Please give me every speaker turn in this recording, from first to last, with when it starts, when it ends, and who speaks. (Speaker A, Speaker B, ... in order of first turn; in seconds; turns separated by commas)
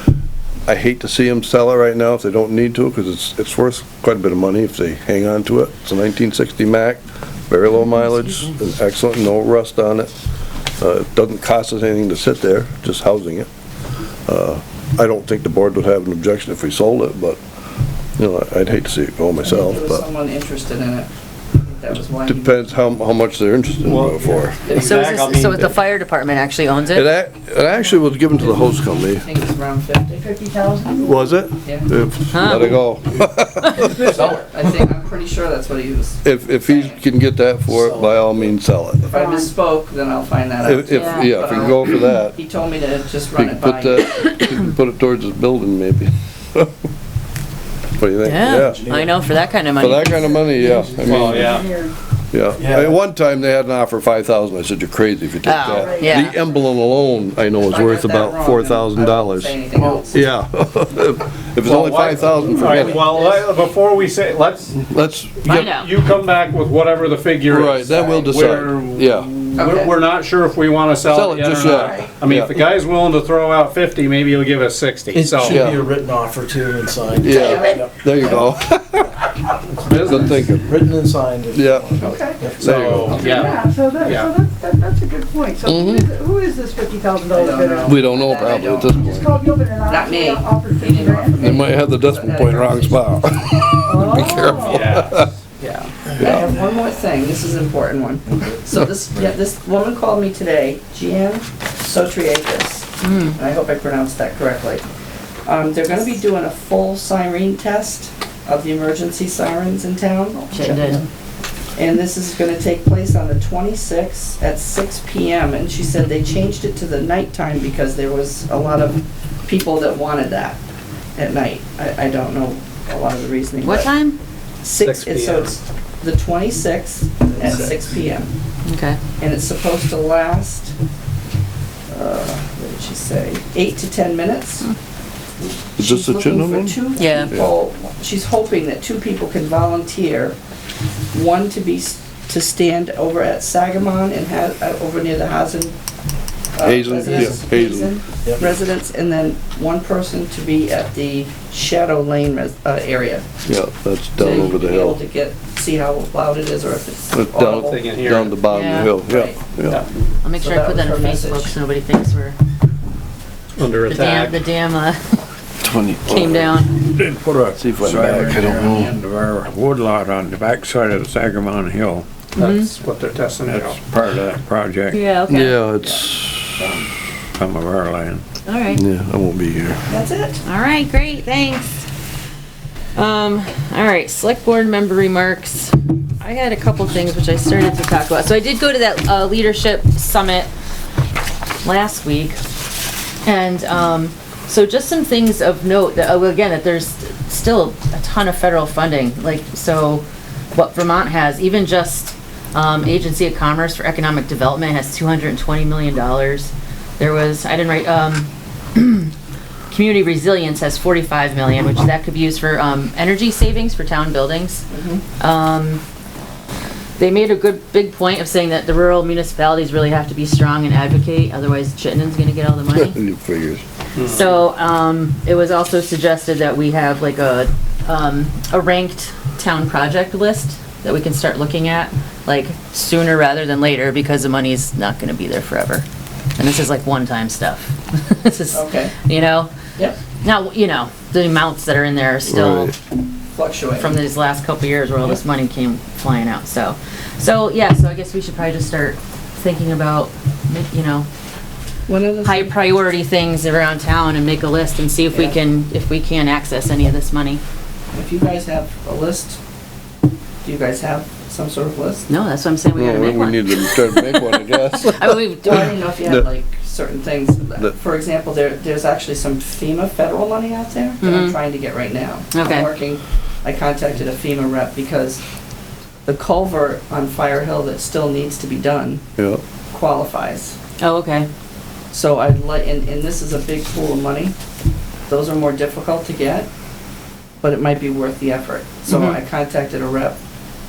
Speaker A: 0.7-10.1, Speaker B: 7.7-8.5, Speaker A: 10.8-13.5, Speaker A: 14.3-17.4, Speaker A: 18.2-20.0, Speaker C: 19.4-21.1, Speaker C: 21.6-22.6, Speaker A: 22.3-24.6, Speaker D: 23.8-25.7, Speaker C: 24.7-24.9, Speaker B: 24.7-27.1, Speaker A: 26.9-29.2, Speaker C: 28.4-30.3, Speaker E: 30.2-31.5, Speaker A: 31.0-34.3, Speaker C: 31.6-31.9, Speaker B: 32.3-32.9, Speaker C: 34.0-37.0, Speaker F: 34.1-34.4, Speaker A: 36.2-39.1, Speaker F: 37.7-38.6, Speaker C: 39.1-44.4, Speaker E: 39.1-39.5, Speaker A: 40.6-42.4, Speaker B: 40.9-41.3, Speaker A: 43.4-46.7, Speaker A: 48.0-48.9, Speaker B: 48.2-50.5, Speaker F: 48.4-49.2, Speaker A: 49.8-51.7, Speaker F: 50.8-51.4, Speaker D: 51.0-51.7, Speaker E: 51.3-51.9, Speaker A: 52.3-63.3, Speaker F: 52.6-53.0, Speaker B: 55.4-56.4, Speaker E: 55.6-56.3, Speaker C: 57.5-60.2, Speaker D: 61.6-64.8, Speaker A: 64.8-65.7, Speaker D: 65.4-75.7, Speaker B: 65.5-65.9, Speaker A: 67.5-69.3, Speaker C: 69.6-70.0, Speaker A: 71.0-72.6, Speaker C: 71.7-72.1, Speaker F: 75.1-78.5, Speaker A: 75.4-75.9, Speaker A: 77.2-79.2, Speaker C: 77.3-77.8, Speaker D: 79.7-80.5, Speaker A: 79.9-80.8, Speaker F: 80.1-83.2, Speaker A: 81.5-82.1, Speaker C: 82.0-82.5, Speaker A: 82.6-83.2, Speaker D: 82.6-84.3, Speaker C: 83.1-83.5, Speaker E: 83.2-88.2, Speaker A: 85.6-86.1, Speaker C: 87.3-89.1, Speaker A: 87.8-89.3, Speaker E: 89.0-91.5, Speaker C: 89.9-93.4, Speaker A: 91.4-95.3, Speaker E: 93.8-95.0, Speaker D: 94.5-95.3, Speaker C: 95.6-104.9, Speaker F: 96.2-96.7, Speaker F: 98.3-99.3, Speaker B: 103.0-103.4, Speaker C: 105.5-111.1, Speaker B: 110.5-111.0, Speaker C: 111.8-120.6, Speaker C: 121.2-123.9, Speaker B: 123.6-124.2, Speaker C: 124.6-128.4, Speaker D: 124.8-125.5, Speaker B: 128.7-129.0, Speaker C: 129.2-130.7, Speaker C: 131.9-134.7, Speaker A: 135.8-137.5, Speaker C: 135.8-140.4, Speaker B: 137.0-137.3, Speaker C: 141.1-145.8, Speaker C: 146.6-153.2, Speaker A: 146.6-148.0, Speaker F: 147.1-147.4, Speaker F: 148.2-148.5, Speaker A: 153.5-155.0, Speaker C: 154.2-157.9, Speaker A: 157.1-159.8, Speaker D: 157.7-158.4, Speaker B: 158.5-158.9, Speaker C: 158.8-159.4, Speaker B: 160.2-162.4, Speaker C: 160.3-161.6, Speaker D: 163.6-164.4, Speaker B: 163.9-165.2, Speaker A: 165.6-166.6, Speaker B: 166.1-166.8, Speaker G: 166.9-172.1, Speaker A: 167.6-168.9, Speaker C: 168.4-169.0, Speaker B: 172.4-172.7, Speaker D: 172.4-173.8, Speaker G: 173.5-175.0, Speaker B: 174.9-175.6, Speaker A: 175.3-176.6, Speaker C: 175.8-176.9, Speaker G: 177.4-178.2, Speaker B: 178.4-178.8, Speaker A: 178.7-179.8, Speaker C: 179.9-180.4, Speaker B: 180.4-181.8, Speaker B: 182.9-190.5, Speaker B: 191.6-192.4, Speaker B: 193.2-209.1, Speaker B: 209.7-214.7, Speaker C: 214.7-215.0, Speaker B: 215.2-215.8, Speaker B: 217.0-223.0, Speaker A: 222.8-223.6, Speaker B: 224.0-235.9, Speaker B: 236.4-239.5, Speaker C: 238.3-238.9, Speaker B: 240.2-242.7, Speaker A: 242.3-242.7, Speaker C: 243.3-243.9, Speaker B: 243.8-251.1, Speaker C: 251.9-252.6, Speaker B: 252.2-257.4, Speaker C: 255.1-255.4, Speaker C: 257.9-259.4, Speaker C: 260.4-262.1, Speaker B: 262.1-265.8, Speaker A: 262.8-266.3, Speaker C: 265.4-275.2, Speaker B: 271.0-271.4, Speaker B: 272.3-272.7, Speaker C: 276.1-279.0, Speaker A: 279.2-279.4, Speaker C: 279.7-280.6, Speaker B: 280.8-281.3, Speaker C: 281.9-284.4, Speaker C: 285.1-286.5, Speaker C: 287.4-290.2, Speaker B: 288.9-289.2